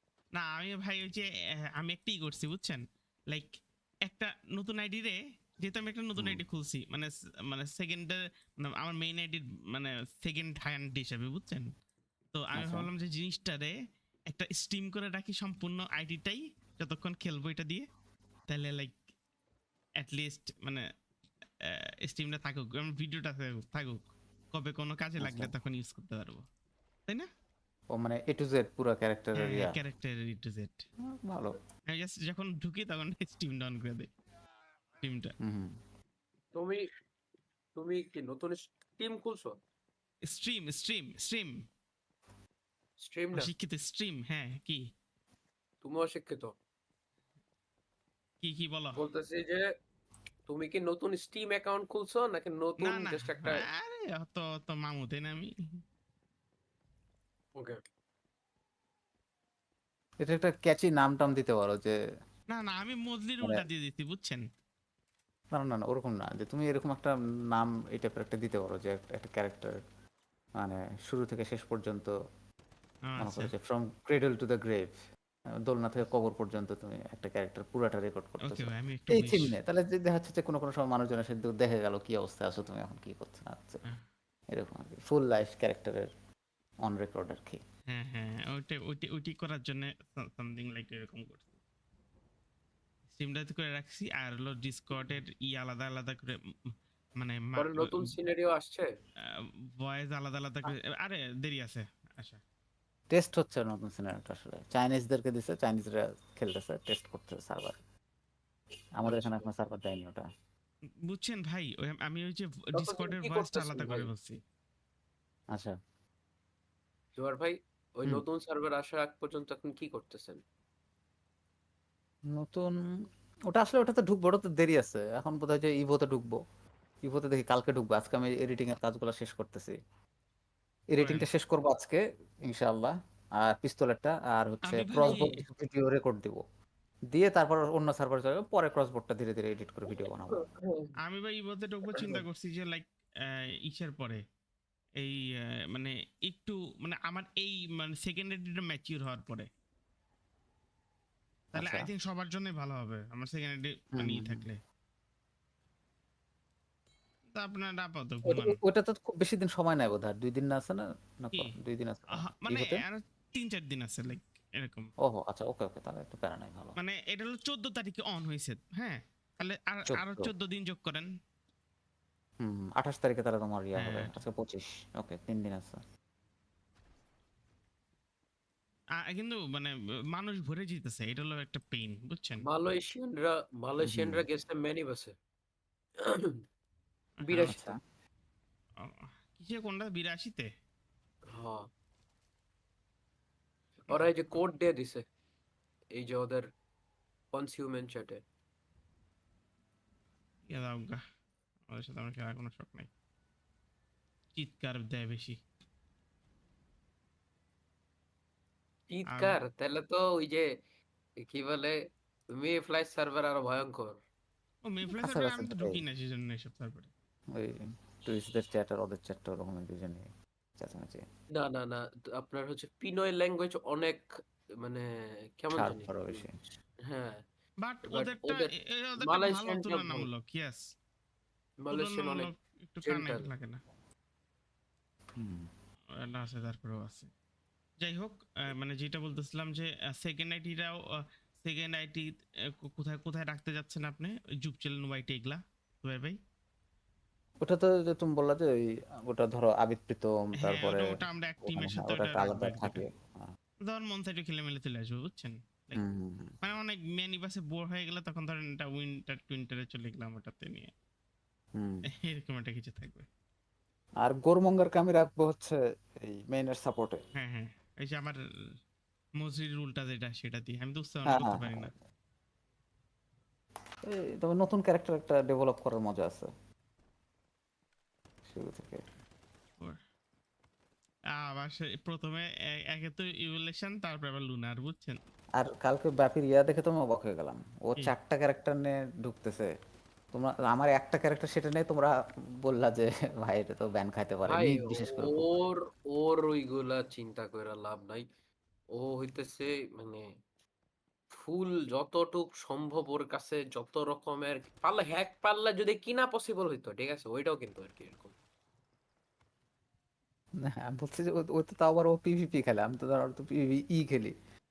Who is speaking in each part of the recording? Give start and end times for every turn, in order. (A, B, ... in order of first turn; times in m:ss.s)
0:00.3-0:11.7 A
0:06.2-0:06.4 B
0:12.3-0:13.7 A
0:12.6-0:12.9 B
0:14.3-0:17.9 A
0:18.5-0:19.0 A
0:20.0-0:20.8 A
0:21.6-0:24.0 A
0:24.5-0:26.4 A
0:25.2-0:25.5 B
0:27.9-0:29.8 B
0:29.4-0:30.8 A
0:31.1-0:31.6 B
0:31.9-0:34.1 A
0:35.0-0:35.3 A
0:35.4-0:35.8 B
0:36.5-0:36.9 C
0:37.8-0:39.6 C
0:40.3-0:41.6 A
0:43.0-0:43.5 C
0:43.4-0:44.9 A
0:45.8-0:46.6 C
0:48.4-0:49.0 A
0:49.0-0:49.7 C
0:50.5-0:53.6 C
0:52.8-0:55.8 A
0:57.6-0:57.8 C
1:00.2-1:02.0 B
1:02.5-1:04.5 A
1:05.5-1:09.8 B
1:10.6-1:12.1 B
1:13.1-1:13.5 A
1:13.2-1:15.0 B
1:15.7-1:23.8 B
1:18.4-1:19.6 A
1:24.5-1:26.1 B
1:26.8-1:27.6 B
1:27.9-1:31.6 A
1:33.1-1:38.1 A
1:37.6-1:38.9 C
1:39.3-1:42.4 A
1:43.1-1:47.8 B
1:49.0-1:50.2 B
1:49.1-1:49.3 C
1:51.0-1:54.4 A
1:52.8-1:54.1 C
1:57.2-2:00.4 C
2:02.3-2:06.4 B
2:07.0-2:09.8 B
2:10.9-2:16.4 B
2:11.0-2:11.3 A
2:14.6-2:15.4 A
2:17.1-2:20.4 B
2:20.0-2:20.9 C
2:21.0-2:24.2 A
2:25.0-2:29.5 A
2:31.5-2:31.9 B
2:31.6-2:34.6 A
2:34.0-2:34.4 B
2:37.3-2:38.6 A
2:38.3-2:42.8 B
2:42.1-2:44.9 A
2:45.0-2:46.8 B
2:46.8-2:51.1 A
2:49.9-2:50.3 B
2:52.4-2:55.8 B
2:53.8-2:54.2 A
2:59.0-3:02.4 A
3:02.5-3:05.1 C
3:03.8-3:04.2 B
3:06.0-3:06.4 C
3:07.2-3:07.6 A
3:07.3-3:07.7 C
3:07.3-3:07.8 B
3:08.8-3:10.5 A
3:11.3-3:11.7 C
3:13.9-3:15.0 C
3:15.9-3:16.5 C
3:17.3-3:18.2 C
3:20.5-3:21.0 A
3:21.7-3:22.9 A
3:24.4-3:25.4 A
3:28.9-3:30.5 C
3:29.1-3:29.4 A
3:31.2-3:31.8 C
3:32.3-3:34.0 C
3:34.6-3:36.9 A
3:34.9-3:35.8 B
3:37.3-3:41.1 B
3:41.3-3:44.9 C
3:45.4-3:46.2 C
3:45.6-3:46.4 B
3:46.9-3:47.2 C
3:47.6-3:50.6 A
3:47.9-3:50.1 C
3:51.6-3:52.3 C
3:51.7-3:53.6 A
3:52.8-3:53.3 C
3:55.2-3:55.5 B
3:56.0-3:57.1 A
3:57.8-4:06.2 A
4:07.4-4:13.4 B
4:10.4-4:12.8 A
4:13.6-4:15.8 A
4:15.8-4:16.4 B
4:16.4-4:20.7 A
4:21.6-4:21.9 B
4:21.9-4:23.1 A
4:24.0-4:27.0 B
4:27.2-4:28.2 A
4:29.2-4:31.7 A
4:31.1-4:31.7 B
4:33.9-4:36.3 B
4:38.3-4:38.9 B
4:41.2-4:45.0 A
4:45.4-4:49.5 B
4:50.1-4:55.3 B
4:54.3-4:58.0 C
4:58.7-5:00.1 C
5:01.1-5:08.1 C
5:10.4-5:14.2 B